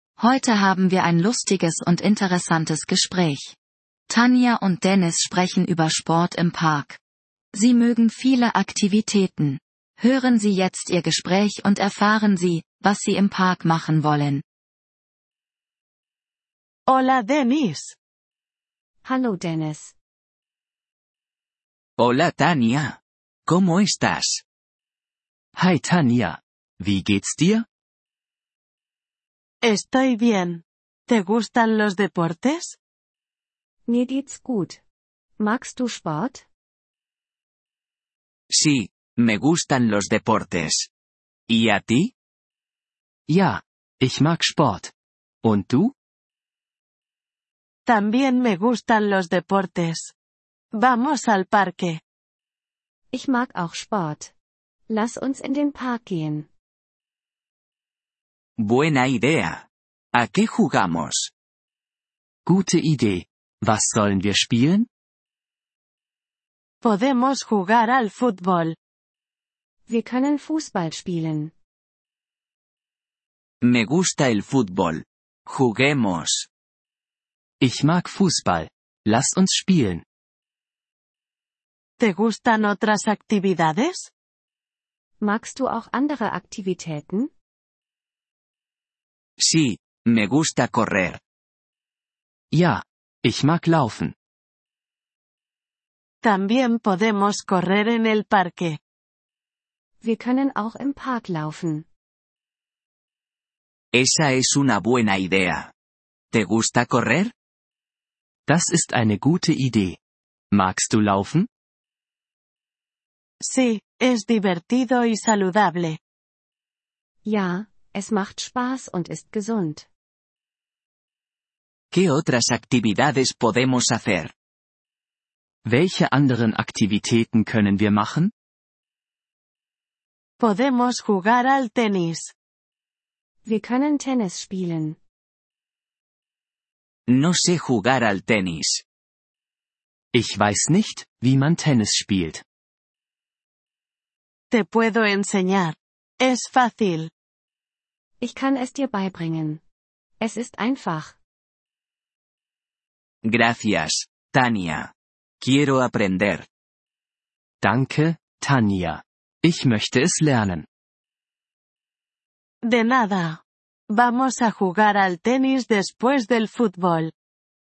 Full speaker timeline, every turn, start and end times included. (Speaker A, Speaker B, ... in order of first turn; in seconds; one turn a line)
Speaker A: 0.2-3.6
Speaker A: 4.1-7.0
Speaker A: 7.5-14.4
Speaker B: 16.9-17.9
Speaker C: 19.0-19.9
Speaker D: 22.0-24.4
Speaker E: 25.6-27.7
Speaker B: 29.6-32.8
Speaker C: 33.9-34.8
Speaker C: 35.4-36.5
Speaker D: 38.5-40.9
Speaker D: 41.5-42.1
Speaker E: 43.3-44.9
Speaker E: 45.4-45.9
Speaker B: 47.9-50.1
Speaker B: 50.8-52.0
Speaker C: 53.1-54.3
Speaker C: 54.9-56.5
Speaker D: 58.6-61.3
Speaker E: 62.5-64.9
Speaker B: 66.8-68.8
Speaker C: 69.9-71.5
Speaker D: 73.6-76.5
Speaker E: 77.6-80.0
Speaker B: 82.0-84.1
Speaker C: 85.2-87.3
Speaker D: 89.4-91.2
Speaker E: 92.5-94.2
Speaker B: 96.2-98.8
Speaker C: 100.0-101.9
Speaker D: 103.9-105.7
Speaker D: 106.3-107.3
Speaker E: 108.5-110.0
Speaker E: 110.5-111.5
Speaker B: 113.4-116.0
Speaker C: 117.2-119.9
Speaker D: 121.9-124.3
Speaker E: 125.7-128.3
Speaker B: 130.4-132.3
Speaker C: 133.4-135.0
Speaker D: 137.1-138.8
Speaker E: 140.1-142.4
Speaker B: 144.5-147.1
Speaker C: 148.2-149.6
Speaker C: 150.2-151.2
Speaker D: 153.2-156.5
Speaker E: 157.6-160.7
Speaker B: 162.6-167.1